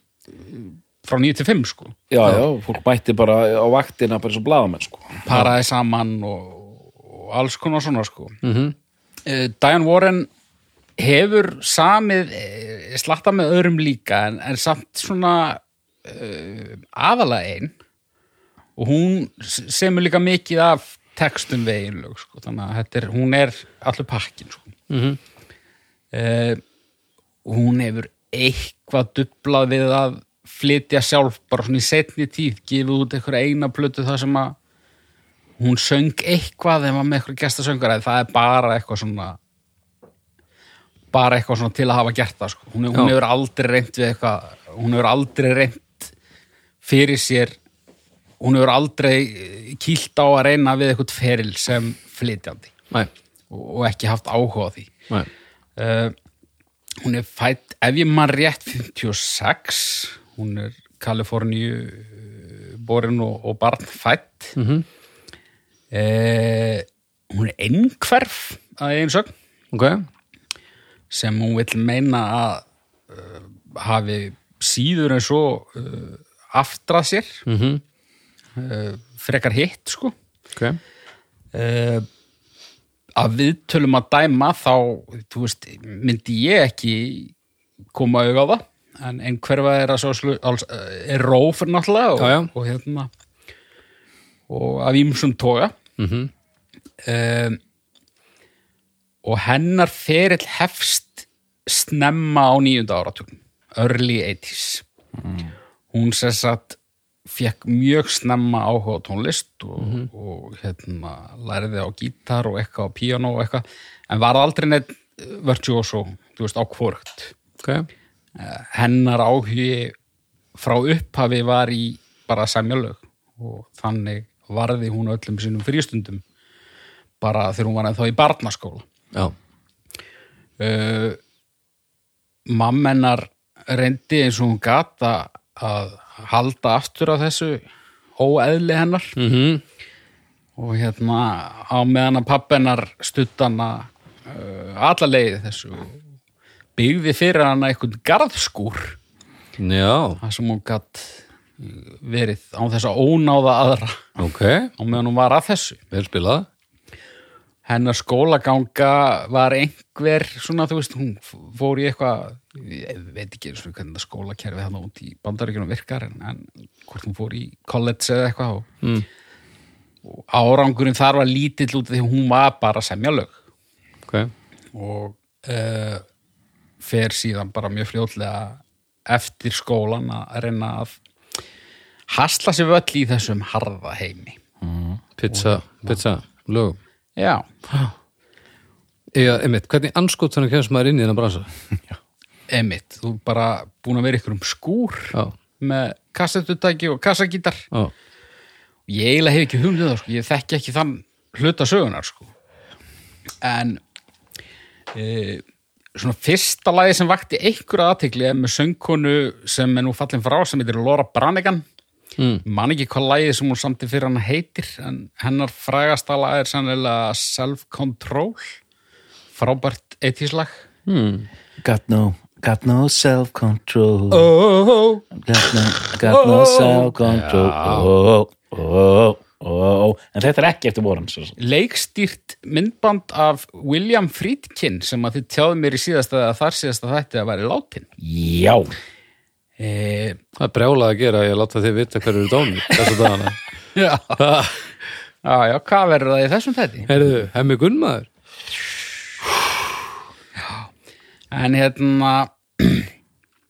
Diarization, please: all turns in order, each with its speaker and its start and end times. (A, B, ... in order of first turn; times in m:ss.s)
0:00.4-0:02.0 A
0:02.1-0:05.4 B
0:05.3-0:08.4 A
0:08.4-0:08.8 C
0:09.3-0:10.3 A
0:11.0-0:17.8 A
0:18.8-0:24.7 A
0:24.9-0:25.2 C
0:26.1-0:26.6 A
0:27.4-0:34.6 A
0:35.6-0:39.4 A
0:41.1-0:46.1 A
0:46.8-0:47.6 A
0:48.4-0:52.7 A
0:53.5-0:54.9 A
0:55.8-0:56.2 A
0:57.0-1:04.6 A
1:04.6-1:04.8 C
1:05.9-1:09.3 A
1:09.7-1:10.1 C
1:11.1-1:17.4 A
1:17.5-1:17.8 C
1:18.6-1:20.1 A
1:21.5-1:22.1 A
1:23.2-1:27.3 A
1:27.9-1:33.1 A
1:32.2-1:32.5 C
1:34.5-1:35.8 A
1:36.0-1:36.3 C
1:37.0-1:37.6 A
1:39.2-1:44.8 A
1:45.2-1:45.5 B
1:45.9-1:57.3 A
1:49.8-1:50.1 C
1:57.6-1:57.9 C
1:58.4-2:00.0 A
2:00.6-2:06.2 A
2:07.2-2:08.9 A
2:10.6-2:11.2 A
2:12.5-2:17.6 A
2:18.2-2:19.2 A
2:19.2-2:19.6 C
2:20.6-2:26.0 A
2:26.8-2:29.0 A
2:29.6-2:30.2 C
2:30.2-2:34.1 A
2:34.2-2:34.7 C
2:34.8-2:35.8 A
2:35.9-2:36.5 C
2:37.7-2:48.7 A
2:50.1-2:53.4 A
2:54.1-2:54.3 C
2:54.8-2:56.0 A
2:56.8-3:01.0 A
3:02.1-3:04.4 A
3:04.6-3:05.0 B
3:05.2-3:06.8 C
3:05.3-3:06.0 A
3:07.2-3:07.5 A
3:09.1-3:11.5 C
3:12.5-3:17.7 A
3:18.9-3:22.3 A
3:23.4-3:23.8 A
3:24.9-3:25.4 A
3:26.0-3:31.6 A
3:32.2-3:32.4 C
3:32.4-3:38.5 A
3:39.4-3:40.6 A
3:40.9-3:41.3 C
3:41.6-3:44.4 B
3:44.1-3:45.0 A
3:45.1-3:51.4 B
3:46.1-3:46.9 A
3:47.0-3:47.9 C
3:51.4-3:57.9 A
3:58.0-3:58.7 B
3:59.6-4:00.2 A
4:00.4-4:03.4 C
4:03.8-4:04.2 A
4:04.2-4:04.6 C
4:05.2-4:06.9 A
4:06.9-4:08.1 C
4:10.4-4:10.7 A
4:11.3-4:12.9 A